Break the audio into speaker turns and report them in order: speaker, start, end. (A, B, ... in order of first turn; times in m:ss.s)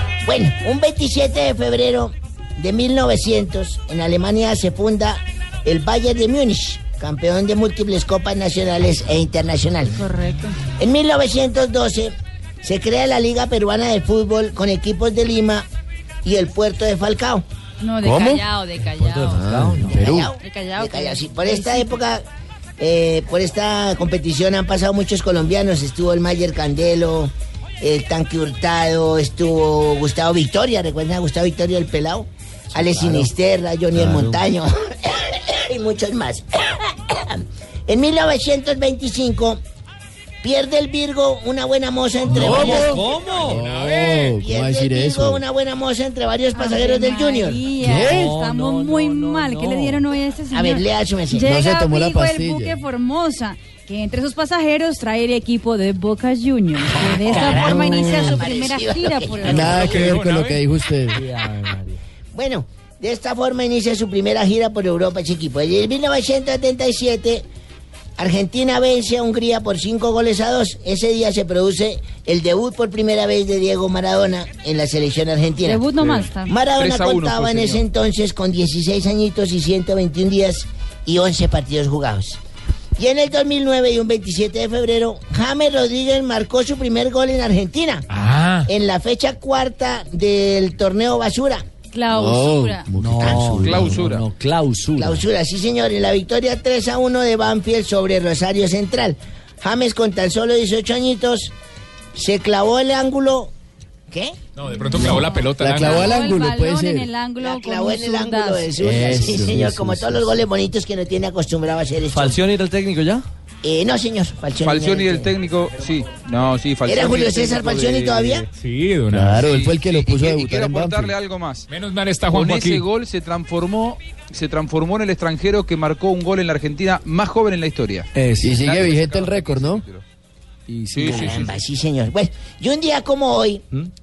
0:00.2-0:10.0 A
0:10.0-0:10.6 B
0:10.8-0:15.6 A
0:16.2-0:17.4 A
0:17.8-0:19.4 B
0:18.0-0:18.4 C
0:19.0-0:20.1 D
0:19.3-0:20.3 C
0:19.8-0:22.2 A
0:20.4-0:21.9 B
0:22.8-0:39.6 A
0:32.8-0:33.3 D
0:34.0-0:34.4 C
0:40.4-0:43.0 A
0:42.3-0:43.7 D
0:42.3-0:45.4 C
0:43.7-0:47.6 A
0:46.5-0:59.8 B
0:47.8-0:50.0 D
0:47.8-0:48.3 C
0:50.5-0:51.5 A
0:51.4-0:52.8 C
0:56.9-1:00.2 A
0:59.4-1:01.2 C
0:59.9-1:00.6 E
1:01.1-1:02.0 D
1:02.3-1:07.4 A
1:08.2-1:15.9 A
1:15.6-1:16.6 B
1:16.5-1:22.4 A
1:16.8-1:17.8 F
1:23.0-1:28.0 A
1:28.1-1:28.7 E
1:28.7-1:31.6 A
1:31.9-1:33.0 B
1:32.1-1:34.1 C
1:33.0-1:35.2 D
1:33.6-1:34.2 F
1:35.0-1:41.5 A
1:42.1-1:43.5 A
1:44.1-1:44.4 A
1:44.6-1:46.0 E
1:45.0-1:48.7 B
1:45.6-1:47.1 C
1:47.4-1:52.4 A
1:48.8-1:50.4 C
1:52.1-1:53.2 D
1:53.6-1:55.3 A
1:54.6-1:58.4 F
1:56.8-1:58.5 A
1:58.6-1:59.5 E
1:59.1-2:01.1 C
1:59.4-2:01.7 F
2:01.7-2:02.8 E
2:02.3-2:10.0 F
2:08.2-2:08.7 D
2:08.4-2:09.8 C
2:10.7-2:11.4 D
2:10.9-2:11.5 F
2:11.0-2:13.6 A